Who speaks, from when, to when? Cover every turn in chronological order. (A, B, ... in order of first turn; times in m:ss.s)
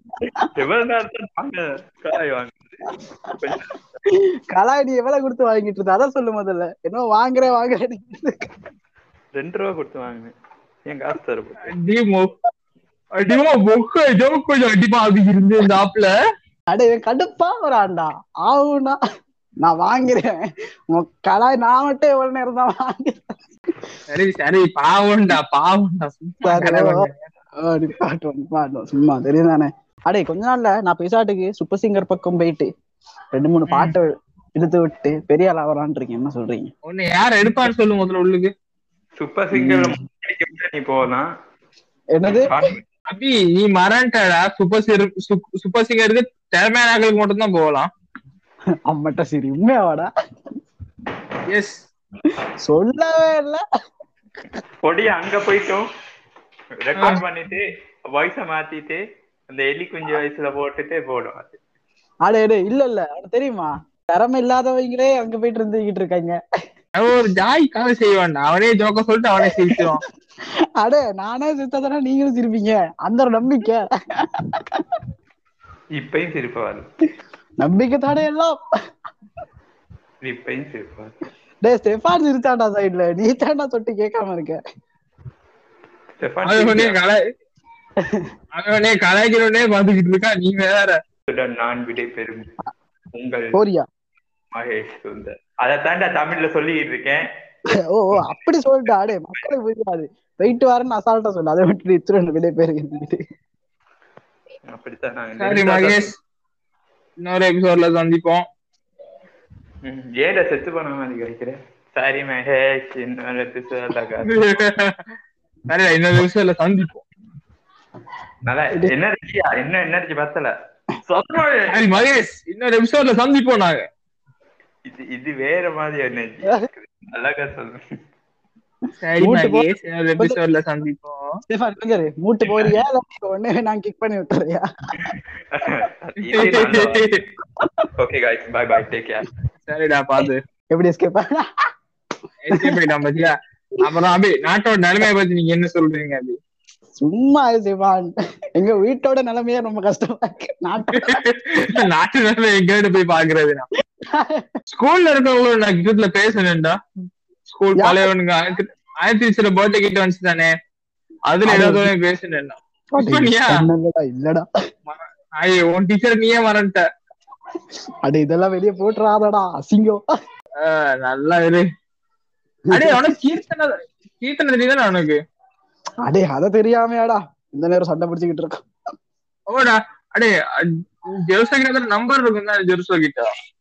0:00.2-0:02.9 A
0:03.0-0:03.4 B
0:03.4-0:03.8 A
0:04.1-0:08.5 B
0:09.4-0:10.3 A
0:10.9-0:11.6 A
0:11.6-0:12.3 C
0:13.2-0:16.1 C
0:16.7-0:19.0 B
0:19.6-0:23.4 B
0:24.1-0:27.3 C
0:26.4-0:27.1 B
0:27.6-0:32.7 B
0:33.3-0:36.7 B
0:33.7-0:34.0 C
0:36.9-0:38.5 C
0:39.2-0:41.3 A
0:39.5-0:40.0 B
0:42.1-0:42.6 B
0:42.5-0:42.8 A
0:43.1-0:47.9 C
0:48.9-0:50.1 B
0:51.5-0:51.9 C
0:52.6-0:53.6 B
0:54.8-0:55.9 A
0:56.8-1:01.6 A
0:57.0-0:57.2 C
1:02.2-1:06.4 B
1:07.0-1:10.0 C
1:09.4-1:09.9 B
1:10.8-1:15.0 B
1:16.0-1:16.9 A
1:17.6-1:18.6 B
1:20.2-1:21.1 A
1:21.6-1:24.6 B
1:26.2-1:27.0 A
1:26.4-1:27.2 C
1:28.0-1:28.3 B
1:28.6-1:31.0 C
1:31.3-1:32.5 A
1:33.1-1:33.6 A
1:33.5-1:33.9 B
1:34.5-1:37.2 A
1:37.9-1:43.2 B
1:39.1-1:39.5 A
1:44.7-1:46.1 A
1:45.4-1:46.2 C
1:47.2-1:48.4 C
1:49.8-1:54.6 A
1:54.2-1:55.0 C
1:55.7-1:57.0 C
1:58.4-2:00.5 A
2:01.0-2:02.0 A
2:01.7-2:03.9 C
2:04.9-2:07.8 A
2:09.0-2:11.4 C
2:09.2-2:09.7 B
2:11.5-2:15.1 B
2:15.0-2:17.3 A
2:16.3-2:17.2 C
2:17.6-2:17.9 B
2:18.0-2:19.3 A
2:19.7-2:20.4 C
2:20.7-2:21.4 B
2:22.4-2:26.4 C
2:27.0-2:31.8 B
2:30.9-2:33.6 C
2:34.0-2:34.5 B
2:34.7-2:36.8 C
2:37.5-2:40.5 C
2:37.8-2:38.1 B
2:41.3-2:43.5 C
2:41.5-2:41.9 B
2:42.9-2:44.4 B
2:44.9-2:46.8 C
2:48.0-2:50.0 B
2:50.6-2:51.6 C
2:52.7-2:55.2 C
2:52.7-2:53.3 B
2:56.1-2:58.6 B
2:59.5-3:03.3 C